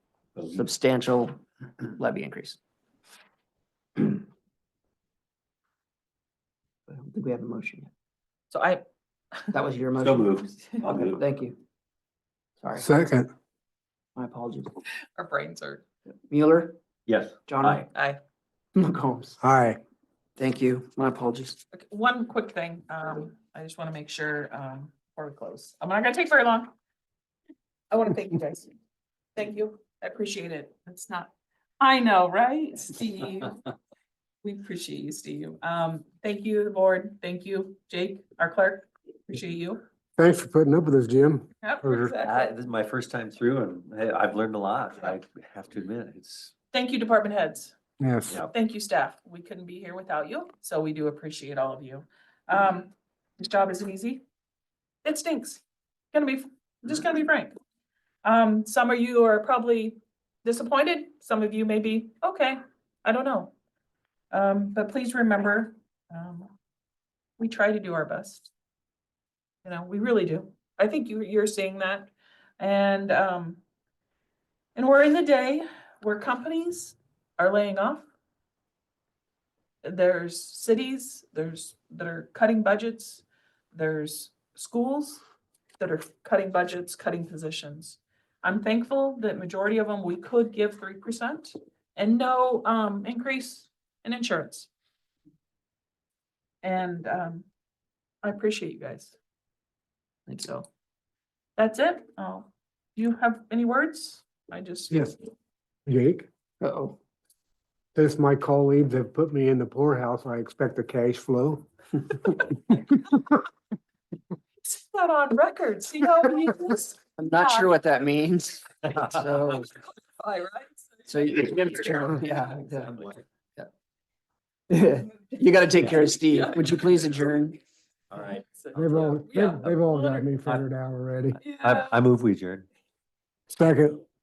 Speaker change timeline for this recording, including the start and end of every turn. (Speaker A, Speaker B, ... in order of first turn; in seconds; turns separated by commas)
Speaker A: 0.3-0.7, Speaker B: 0.5-2.6, Speaker B: 6.9-7.9, Speaker C: 8.5-8.8, Speaker B: 9.5-10.4, Speaker A: 10.0-11.2, Speaker C: 10.5-10.8, Speaker B: 11.1-11.6, Speaker B: 12.6-12.9, Speaker D: 12.8-13.3, Speaker B: 14.2-14.8, Speaker C: 15.2-15.8, Speaker B: 16.3-16.8, Speaker A: 17.1-17.9, Speaker B: 17.5-17.8, Speaker C: 17.9-18.2, Speaker B: 18.7-19.4, Speaker D: 19.4-19.8, Speaker B: 20.4-21.6, Speaker C: 21.7-26.7, Speaker C: 27.9-28.7, Speaker C: 29.4-33.6, Speaker C: 34.4-39.8, Speaker D: 40.2-42.1, Speaker C: 41.6-42.5, Speaker A: 41.9-46.5, Speaker C: 46.7-47.7, Speaker D: 48.0-48.4, Speaker C: 48.5-54.2, Speaker C: 55.0-57.5, Speaker C: 58.2-63.5, Speaker C: 64.3-66.5, Speaker C: 67.4-68.5, Speaker C: 69.6-73.6, Speaker C: 74.7-78.0, Speaker C: 79.8-85.2, Speaker C: 85.8-94.7, Speaker C: 96.6-97.5, Speaker C: 98.2-99.2, Speaker C: 100.3-100.7, Speaker C: 101.6-105.2, Speaker D: 105.8-106.3, Speaker B: 106.6-107.0, Speaker D: 107.9-111.7, Speaker C: 114.6-117.8, Speaker B: 117.2-119.7, Speaker C: 120.0-122.2, Speaker B: 121.1-123.7, Speaker A: 122.8-123.2, Speaker B: 124.7-127.6, Speaker A: 125.8-126.1, Speaker A: 128.1-128.4, Speaker C: 128.2-130.3, Speaker D: 128.7-131.4, Speaker C: 131.4-132.0, Speaker A: 131.6-132.7, Speaker D: 133.5-134.0